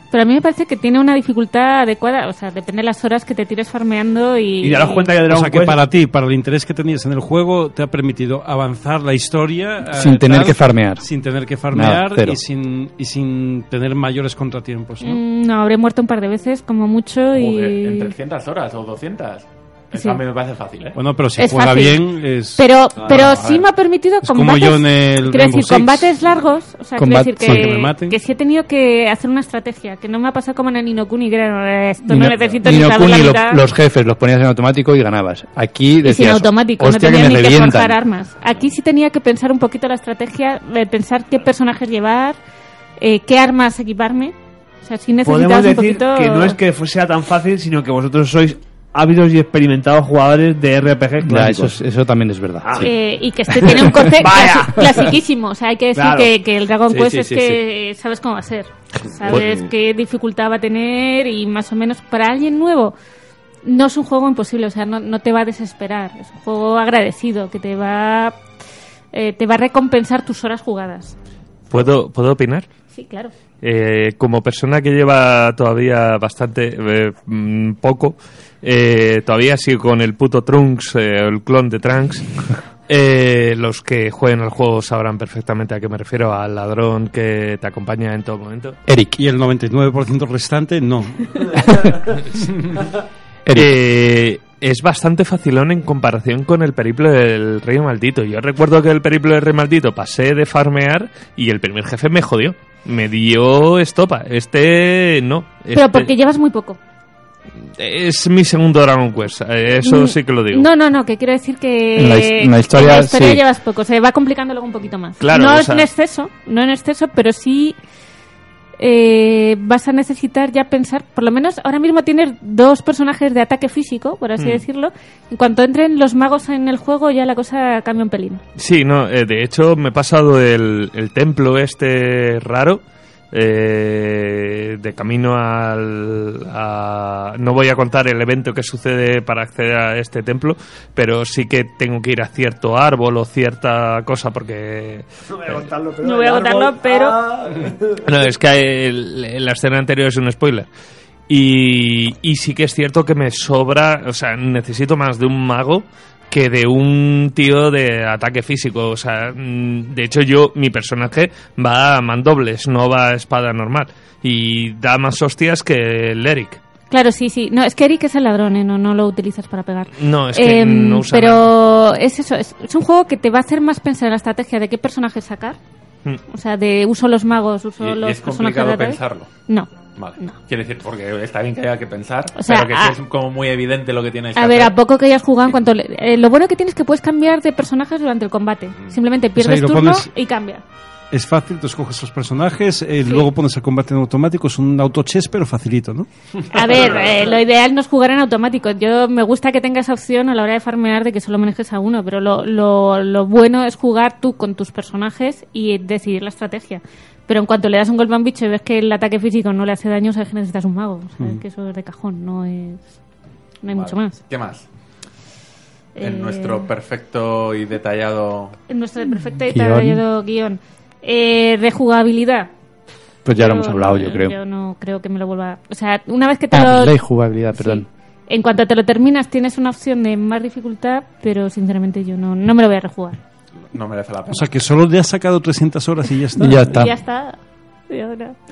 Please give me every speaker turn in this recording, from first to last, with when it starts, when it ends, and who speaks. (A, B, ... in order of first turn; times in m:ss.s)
0:00.1-0:05.1 A
0:04.6-0:05.8 B
0:05.2-0:15.2 C
0:10.0-0:11.1 D
0:11.7-0:12.4 D
0:15.0-0:18.1 A
0:17.3-0:21.0 E
0:20.0-0:20.2 A
0:21.0-0:23.2 C
0:21.4-0:22.0 A
0:22.6-0:33.6 A
0:23.0-0:23.7 E
0:24.2-0:26.2 C
0:27.0-0:27.8 D
0:27.4-0:28.2 C
0:32.1-0:38.0 D
0:32.4-0:32.9 E
0:36.0-0:42.4 A
0:43.0-0:46.6 A
0:45.2-0:51.8 B
0:51.2-0:52.9 D
0:52.6-0:52.9 B
0:52.8-1:03.0 A
0:53.6-0:55.1 B
0:53.6-0:54.2 D
0:56.0-0:56.3 B
0:56.9-0:57.6 D
0:59.2-0:59.7 B
1:03.6-1:08.4 A
1:09.1-1:11.2 A
1:11.7-1:12.7 F
1:12.9-1:13.3 A
1:13.6-1:22.3 F
1:22.9-1:28.8 F
1:28.9-1:29.2 D
1:29.2-1:31.8 C
1:31.7-1:32.0 D
1:33.4-1:33.8 D
1:33.5-1:46.1 F
1:45.7-1:46.8 A
1:47.8-1:50.7 F
1:49.8-1:57.8 A
1:52.0-1:53.4 D
1:55.2-1:55.9 F
1:58.8-2:08.4 A
2:08.6-2:12.8 F
2:13.3-2:25.1 F
2:25.3-2:28.0 B
2:26.0-2:27.2 A
2:28.0-2:30.7 F
2:31.3-2:46.6 F
2:46.9-2:55.6 A
2:50.0-2:51.5 F
2:56.3-3:00.4 A
2:57.8-2:59.3 E
3:00.0-3:04.7 E
3:02.4-3:03.0 A
3:04.4-3:10.6 A
3:09.4-3:10.1 C
3:11.1-3:16.1 C
3:16.5-3:32.9 A
3:33.6-3:34.2 A
3:33.7-3:34.7 E
3:36.0-3:36.7 A
3:36.0-3:38.6 E
3:38.7-3:42.5 A
3:39.5-3:40.0 D
3:43.2-3:44.3 D
3:43.4-3:47.0 A
3:46.5-3:47.9 D
3:47.6-3:53.2 A
3:53.7-3:54.5 E
3:54.3-3:56.8 C
3:56.4-3:56.9 D
3:56.4-3:58.4 A